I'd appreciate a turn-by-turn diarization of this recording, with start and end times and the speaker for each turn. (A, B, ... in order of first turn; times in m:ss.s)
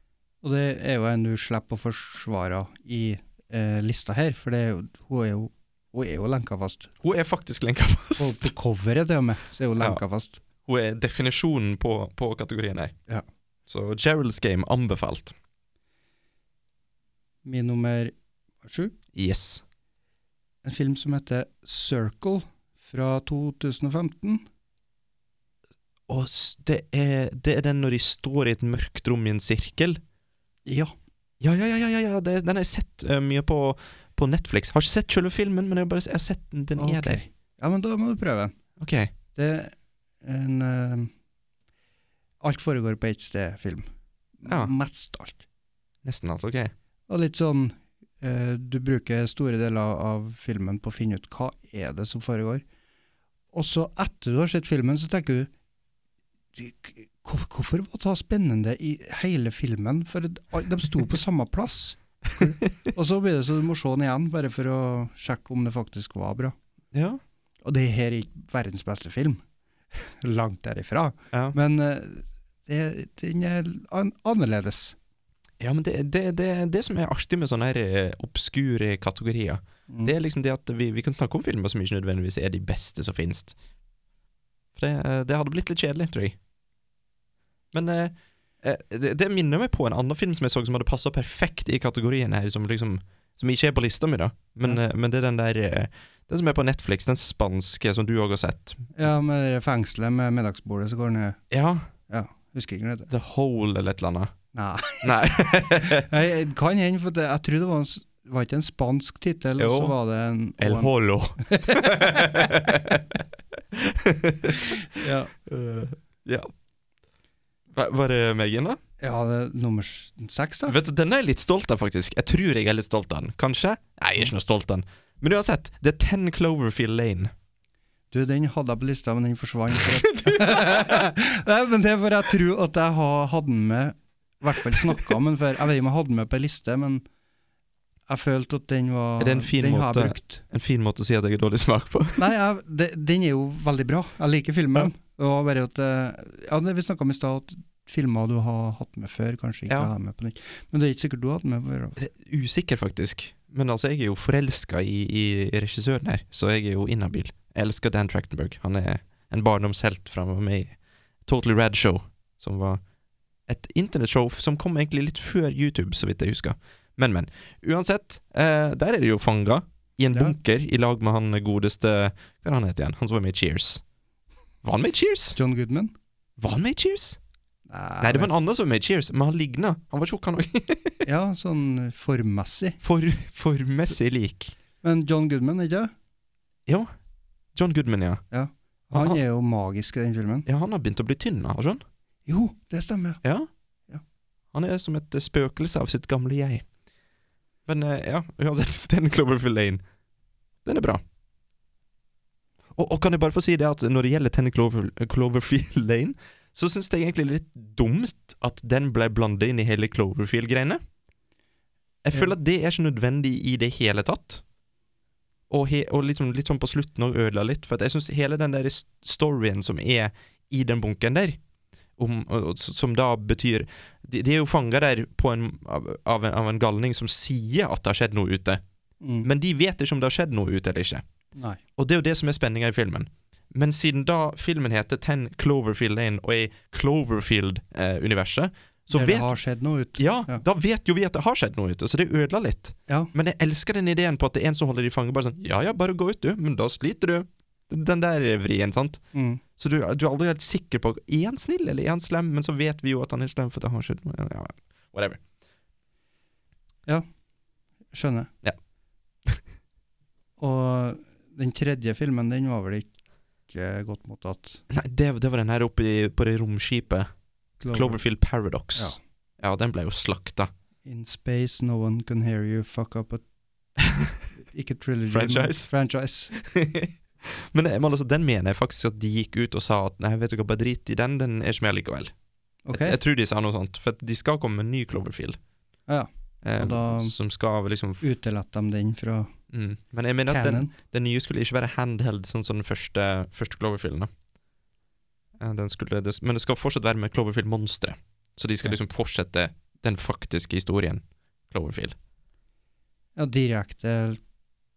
0:00.4-0:06.9 A
0:07.0-0:08.5 B
0:08.2-0:10.4 A
0:10.7-0:13.0 B
0:13.7-0:15.4 B
0:17.4-0:18.1 A
0:18.6-0:18.9 A
0:19.2-0:19.6 B
0:20.6-0:24.4 A
0:26.1-0:30.0 B
0:30.7-0:30.9 A
0:31.4-0:37.2 B
0:36.8-0:38.5 A
0:38.8-0:39.1 B
0:39.4-0:41.1 A
0:42.4-0:43.9 A
0:44.4-0:45.4 A
0:44.5-0:44.7 B
0:46.0-0:46.7 B
0:47.1-0:52.6 A
0:53.5-0:55.5 A
0:56.6-1:06.5 A
1:06.9-1:07.2 B
1:07.6-1:09.4 A
1:10.0-1:15.0 A
1:15.6-1:23.5 B
1:19.9-1:20.1 A
1:24.8-1:26.4 B
1:27.7-1:38.9 B
1:39.0-1:41.4 A
1:41.5-1:41.9 B
1:42.1-1:43.1 A
1:43.1-1:44.3 B
1:44.5-1:45.0 A
1:45.0-1:46.1 B
1:45.8-1:50.9 A
1:49.6-1:50.0 B
1:50.6-1:53.2 B
1:51.5-1:52.6 A
1:53.7-1:56.5 B
1:55.0-1:55.3 A
1:57.7-1:58.8 B
1:59.0-2:00.8 A
2:00.7-2:07.3 B
2:08.1-2:17.0 A
2:09.8-2:11.1 B
2:14.7-2:15.0 B
2:18.1-2:20.4 A
2:19.2-2:22.3 B
2:22.2-2:32.0 A
2:32.0-2:42.8 B
2:43.5-2:53.8 B
2:54.6-2:55.4 B
2:55.4-2:55.9 A
2:56.4-2:57.2 B
2:57.7-2:58.3 A
2:58.0-3:01.0 B
3:01.0-3:02.8 A
3:02.8-3:04.5 B
3:04.8-3:05.9 A
3:06.7-3:06.9 B
3:07.6-3:08.2 B
3:08.3-3:10.5 A
3:08.9-3:09.2 B
3:10.5-3:11.8 B
3:12.3-3:13.2 A
3:13.2-3:13.5 B
3:14.5-3:16.6 B
3:17.7-3:19.8 B
3:20.6-3:21.0 B
3:22.8-3:30.8 B
3:32.0-3:34.4 B
3:35.5-3:41.4 B
3:42.0-3:48.6 B
3:49.0-3:49.3 A
3:49.2-3:51.0 B
3:51.8-3:59.4 B
3:58.9-4:00.4 A
4:00.0-4:09.0 B
4:09.1-4:09.4 A
4:09.6-4:15.2 B
4:17.9-4:18.3 A
4:20.4-4:22.9 A
4:23.5-4:24.6 A
4:24.7-4:27.1 B
4:27.6-4:28.0 A
4:27.7-4:30.5 B
4:30.9-4:33.2 A
4:34.4-4:36.3 A
4:35.1-4:35.7 B
4:36.3-4:42.1 B
4:42.7-4:43.0 A
4:42.7-4:45.4 B
4:45.9-4:47.2 A
4:46.4-4:48.1 B
4:48.0-4:49.3 A
4:49.5-4:54.1 B
4:50.3-4:50.7 A
4:55.4-5:02.0 B
5:03.2-5:04.2 A